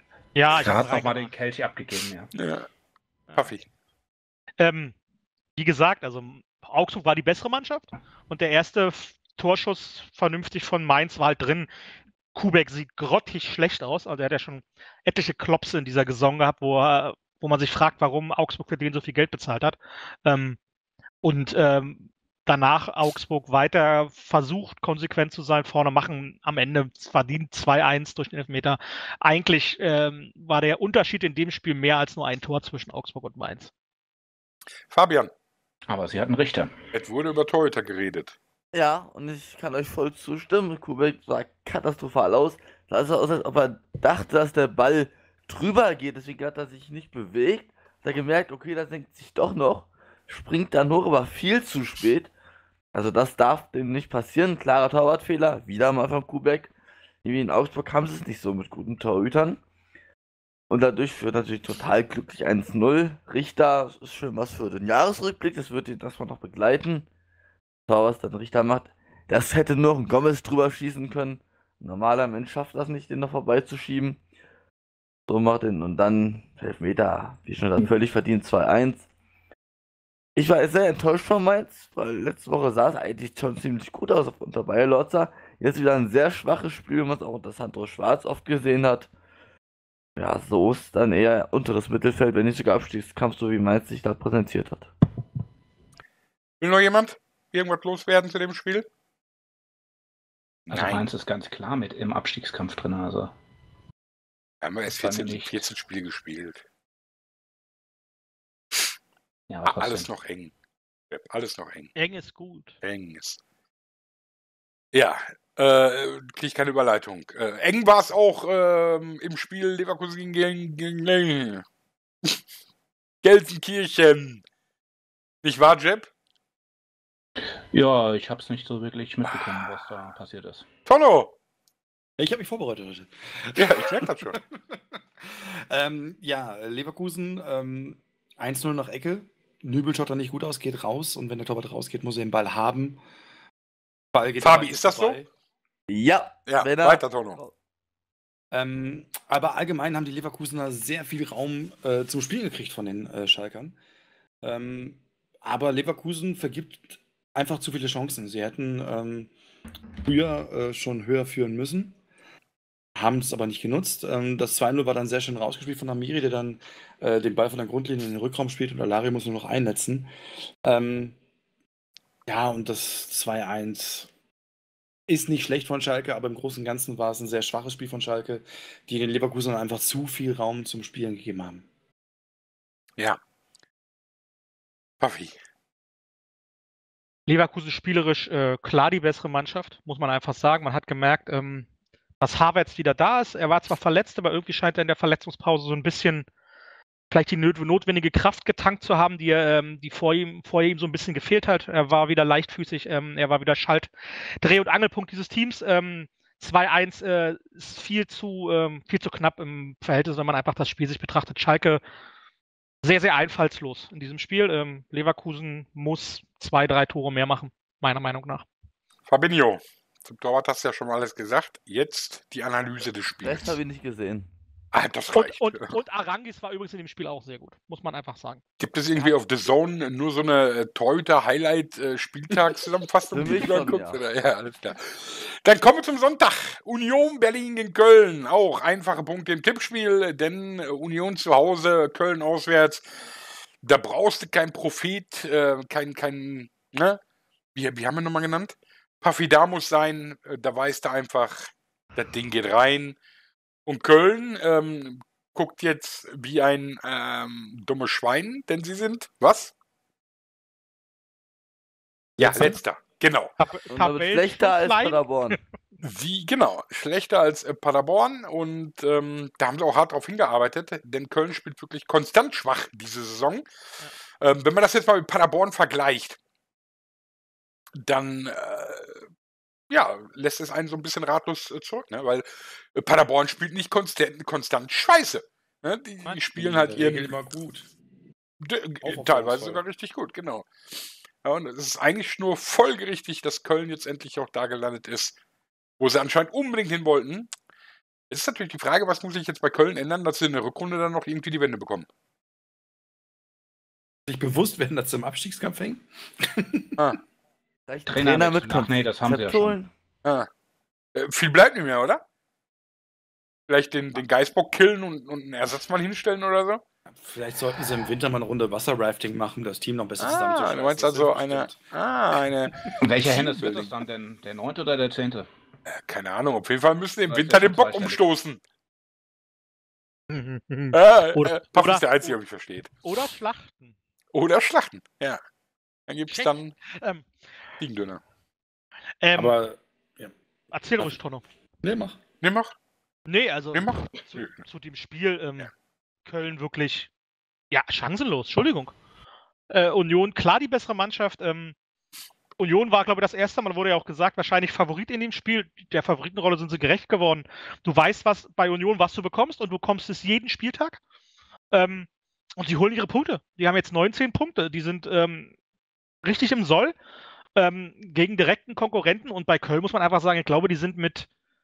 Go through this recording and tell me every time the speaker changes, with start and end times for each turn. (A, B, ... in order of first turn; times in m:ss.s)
0:00.3-0:01.3 A
0:00.5-0:02.3 B
0:02.3-0:02.7 C
0:03.4-0:03.6 C
0:04.6-0:04.9 A
0:05.6-0:11.7 A
0:12.3-0:20.6 A
0:21.2-0:33.7 A
0:34.9-0:35.3 C
0:35.9-0:36.7 B
0:36.9-0:38.3 C
0:38.7-0:52.3 D
0:52.9-0:56.7 D
0:57.2-0:59.6 D
1:00.7-1:07.1 D
1:07.9-1:14.2 D
1:15.3-1:19.0 D
1:20.4-1:29.1 D
1:30.2-1:34.9 D
1:36.6-1:38.9 C
1:40.7-1:41.1 C
1:40.7-1:43.3 B
1:44.6-1:46.6 C
1:44.9-1:45.6 B
1:49.5-1:50.1 B
1:49.6-1:50.5 C
1:51.1-1:51.9 C
1:52.0-1:52.7 A
1:52.8-1:53.4 C
1:54.9-2:01.6 C
2:03.2-2:04.4 C
2:05.4-2:06.1 C
2:07.7-2:10.6 B
2:09.3-2:09.6 C
2:10.8-2:11.3 C
2:12.2-2:23.0 E
2:13.5-2:14.4 C
2:24.1-2:25.3 E
2:24.4-2:25.2 C
2:25.9-2:27.5 D
2:26.5-2:27.4 C
2:28.5-2:33.8 E
2:34.4-2:39.3 E
2:40.0-2:42.0 E
2:43.0-2:50.1 E
2:50.6-2:51.2 E
2:52.3-2:54.1 E
2:55.1-3:01.6 E
3:05.0-3:05.3 C
3:07.3-3:11.7 A
3:12.2-3:16.2 A
3:17.1-3:31.8 A
3:32.8-3:38.4 A
3:39.1-3:43.6 C
3:43.2-3:44.3 D
3:44.7-3:45.8 C
3:45.1-3:48.4 A
3:48.6-4:02.9 C
3:53.1-3:54.0 D
4:03.6-4:07.0 C
4:07.5-4:13.0 C
4:13.6-4:19.5 C
4:22.2-4:22.6 E
4:22.2-4:23.3 C
4:23.4-4:25.4 A
4:23.7-4:25.4 D
4:25.8-4:33.4 C
4:34.2-4:36.2 C
4:37.8-4:39.0 C
4:39.7-4:47.1 C
4:46.1-4:47.7 E
4:48.4-4:50.5 C
4:48.8-4:49.6 E
4:51.2-4:55.2 C
4:55.8-4:57.3 C
4:58.1-5:01.9 C
5:04.1-5:06.8 E
5:07.7-5:09.7 D
5:07.9-5:09.6 B
5:10.9-5:12.0 C
5:13.5-5:16.6 C
5:16.9-5:21.6 E
5:20.0-5:23.7 C
5:22.8-5:25.3 B
5:25.7-5:28.4 C
5:27.1-5:28.0 B
5:30.1-5:32.1 A
5:30.7-5:32.7 C
5:32.8-5:33.7 A
5:34.1-5:35.2 C
5:35.9-5:36.6 C
5:36.1-5:37.0 A
5:37.6-5:38.0 C
5:39.0-5:39.4 A
5:39.1-5:40.1 E
5:40.5-5:41.2 A
5:41.6-5:42.0 E
5:42.2-5:42.5 C
5:43.1-5:45.5 A
5:43.5-5:44.4 C
5:46.0-5:46.9 A
5:47.5-5:48.7 A
5:49.5-5:51.5 A
5:52.4-6:00.8 A
6:01.5-6:05.3 A
6:06.0-6:06.8 A
6:07.4-6:11.1 A